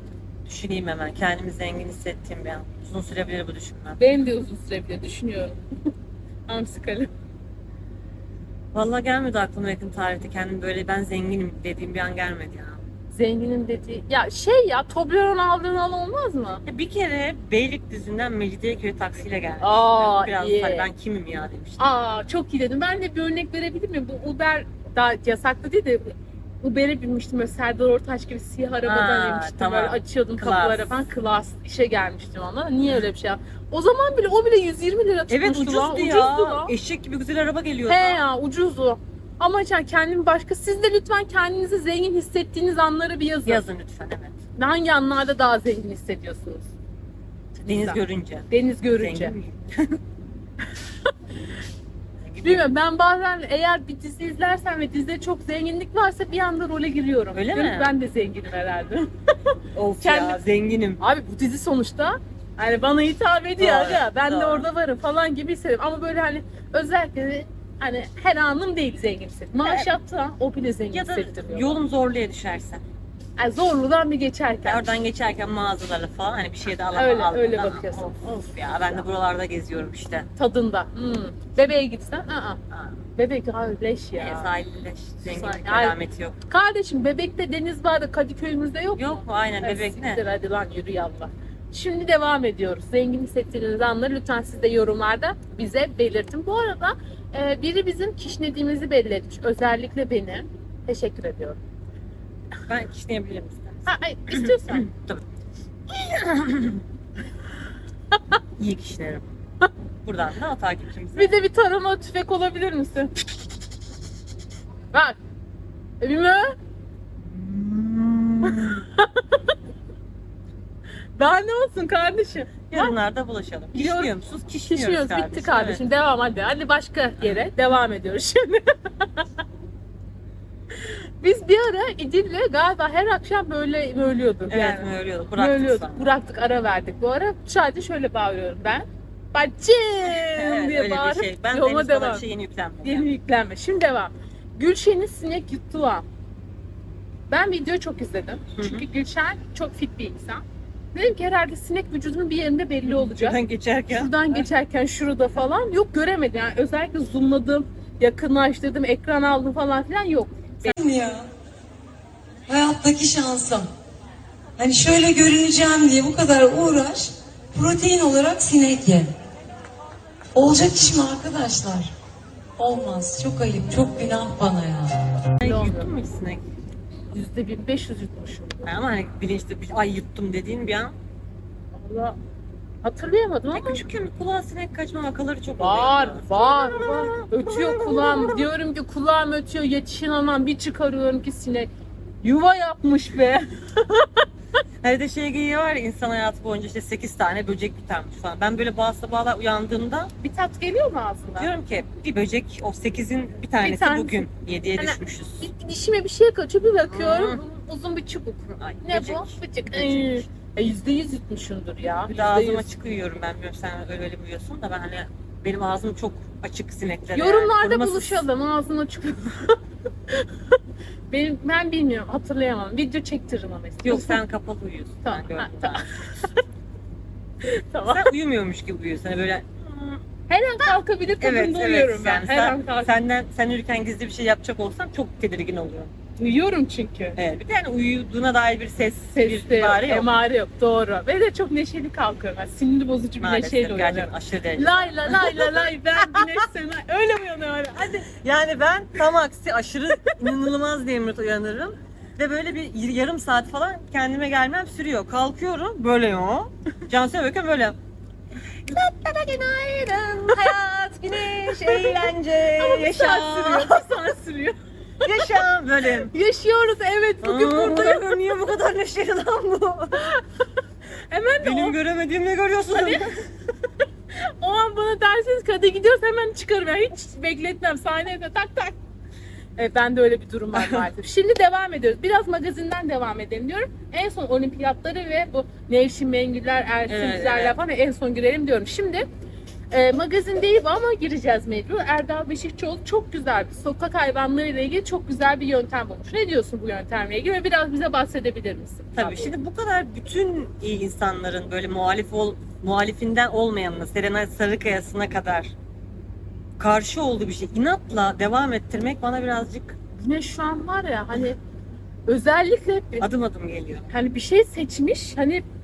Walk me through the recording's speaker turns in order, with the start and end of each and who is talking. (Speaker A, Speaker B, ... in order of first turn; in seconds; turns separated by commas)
Speaker A: 0.5-4.0, Speaker B: 4.0-5.6, Speaker B: 6.5-7.1, Speaker A: 8.7-12.8, Speaker B: 13.1-16.6, Speaker A: 16.6-21.8, Speaker B: 19.6-20.9, Speaker B: 21.8-36.7, Speaker A: 28.8-31.0, Speaker A: 35.3-38.2, Speaker B: 37.9-43.6, Speaker A: 43.5-44.4, Speaker B: 44.6-46.7, Speaker A: 47.6-50.0, Speaker B: 48.5-49.3, Speaker A: 52.2-52.7, Speaker B: 52.4-60.4, Speaker A: 57.3-57.9, Speaker A: 59.7-61.0, Speaker B: 61.0-71.8, Speaker A: 63.6-64.7, Speaker A: 69.6-69.9, Speaker A: 70.9-72.8, Speaker B: 73.4-74.9, Speaker A: 74.7-80.3, Speaker B: 76.9-78.5, Speaker B: 80.4-82.6, Speaker A: 82.7-83.0, Speaker B: 83.2-84.5, Speaker A: 84.2-86.4, Speaker B: 85.2-86.0, Speaker B: 86.5-101.6, Speaker A: 89.0-90.2, Speaker A: 102.7-105.2, Speaker B: 103.9-104.9, Speaker A: 105.9-106.8, Speaker A: 108.6-109.3, Speaker A: 110.0-111.3, Speaker B: 111.2-113.1, Speaker B: 116.0-116.5, Speaker A: 117.2-118.8, Speaker B: 118.4-119.4, Speaker B: 121.2-122.9, Speaker A: 122.7-125.8, Speaker B: 123.7-124.1, Speaker B: 124.6-129.3, Speaker B: 130.8-142.2, Speaker A: 134.5-136.1, Speaker A: 140.0-143.1, Speaker B: 142.8-146.1, Speaker B: 147.3-150.4, Speaker A: 148.6-148.9, Speaker B: 150.9-153.4, Speaker A: 152.9-154.5, Speaker B: 153.9-160.8, Speaker C: 160.7-161.3, Speaker C: 162.5-163.7, Speaker C: 164.6-169.1, Speaker C: 170.3-171.9, Speaker C: 172.6-175.1, Speaker A: 175.4-176.4, Speaker B: 175.4-175.9, Speaker B: 177.1-178.7, Speaker A: 178.6-181.0, Speaker B: 181.7-182.2, Speaker B: 182.8-183.8, Speaker A: 183.5-188.5, Speaker B: 185.6-191.7, Speaker B: 192.2-194.2, Speaker A: 194.8-200.1, Speaker B: 200.2-201.5, Speaker A: 201.4-205.5, Speaker B: 203.6-212.7, Speaker A: 206.8-207.4, Speaker A: 208.5-210.3, Speaker A: 212.1-218.2, Speaker B: 217.1-219.6, Speaker B: 220.1-220.4, Speaker B: 221.1-224.2, Speaker A: 223.8-225.9, Speaker B: 225.0-226.4, Speaker B: 227.4-228.1, Speaker A: 227.9-230.0, Speaker B: 230.3-232.9, Speaker A: 230.6-235.9, Speaker B: 236.2-237.2, Speaker A: 237.2-240.1, Speaker B: 239.1-248.1, Speaker A: 243.2-246.4, Speaker A: 247.8-257.8, Speaker A: 258.7-264.0, Speaker B: 261.4-265.4, Speaker A: 265.0-266.1, Speaker B: 266.1-268.2, Speaker A: 267.2-270.1, Speaker B: 270.0-270.2, Speaker B: 271.1-271.8, Speaker A: 271.4-273.1, Speaker B: 272.7-273.1, Speaker B: 274.1-278.7, Speaker B: 279.6-289.1, Speaker A: 280.5-280.9, Speaker A: 286.9-287.6, Speaker B: 289.7-299.3, Speaker A: 299.0-305.5, Speaker A: 306.6-309.8, Speaker B: 310.0-311.4, Speaker B: 312.1-313.1, Speaker A: 313.0-313.9, Speaker B: 313.9-315.5